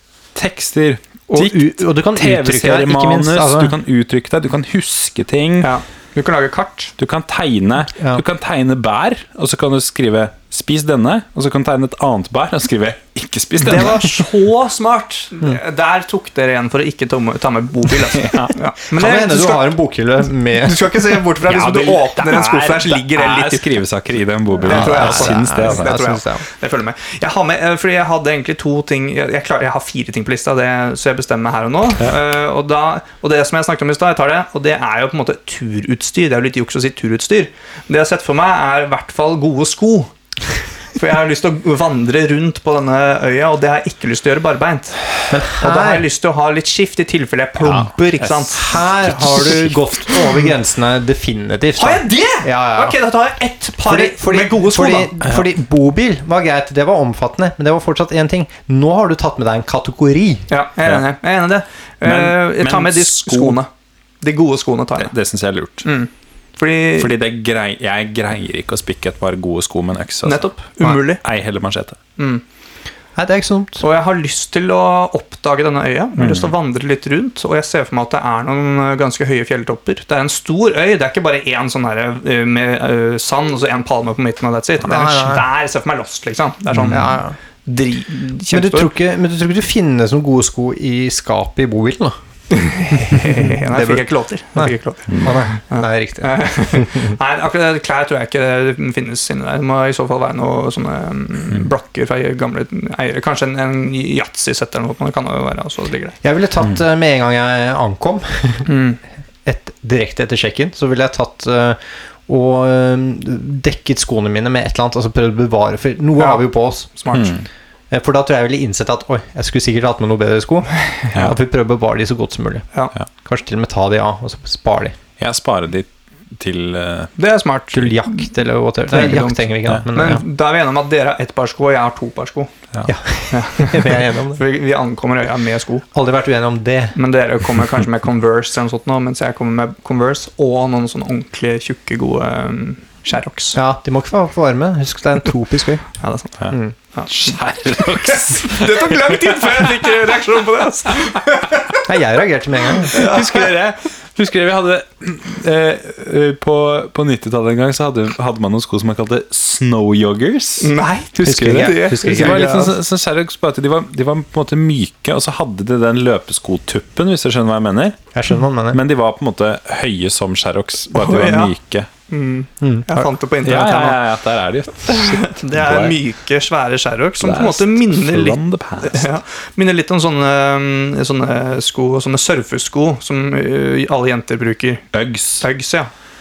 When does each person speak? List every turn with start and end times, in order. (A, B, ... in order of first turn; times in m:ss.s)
0:00.4-0:05.7 A
0:01.3-0:03.7 B
0:05.6-0:06.9 C
0:07.0-0:14.2 A
0:08.0-0:08.2 B
0:13.6-0:19.7 C
0:18.0-0:18.5 A
0:18.9-0:21.1 B
0:20.6-0:23.8 C
0:21.5-0:26.0 A
0:24.6-0:40.1 C
0:24.6-0:26.4 B
0:41.0-0:50.5 C
0:45.3-0:46.0 B
0:47.6-0:47.9 B
0:48.5-0:53.0 B
0:51.8-0:55.2 C
0:53.8-1:00.5 B
1:00.5-1:03.7 C
1:02.0-1:03.6 A
1:04.2-1:05.1 C
1:05.0-1:05.9 A
1:05.8-1:07.1 C
1:07.0-1:12.0 A
1:10.2-1:11.2 C
1:12.2-1:12.4 C
1:13.2-1:13.8 B
1:13.8-1:28.9 C
1:16.2-1:16.5 A
1:24.8-1:25.4 B
1:26.9-1:27.4 B
1:28.5-1:32.1 B
1:32.5-1:46.2 C
1:33.6-1:34.0 B
1:34.6-1:37.2 B
1:35.1-1:35.4 A
1:46.2-1:48.7 B
1:48.7-1:49.0 C
1:49.4-1:56.9 B
1:56.2-1:57.4 C
1:57.1-1:57.4 A
1:57.9-2:02.7 B
2:00.8-2:01.1 C
2:03.2-2:05.0 B
2:05.2-2:07.1 A
2:07.2-2:08.3 C
2:07.7-2:10.2 B
2:08.9-2:12.5 C
2:12.9-2:14.4 B
2:13.3-2:15.9 C
2:15.9-2:17.0 B
2:17.0-2:23.6 C
2:23.6-2:25.8 B
2:26.0-2:27.3 C
2:27.1-2:29.7 A
2:28.1-2:31.8 C
2:31.8-2:33.0 B
2:32.9-2:33.6 C
2:32.9-2:48.0 A
2:40.6-2:42.7 C
2:41.2-2:42.5 B
2:48.1-2:48.8 B
2:48.7-2:51.9 A
2:50.9-2:51.5 C
2:52.1-2:54.0 C
2:52.6-2:52.9 B
2:53.4-2:56.0 A
2:54.9-3:04.8 C
2:57.2-2:59.1 A
3:04.9-3:05.4 A
3:05.4-3:05.9 C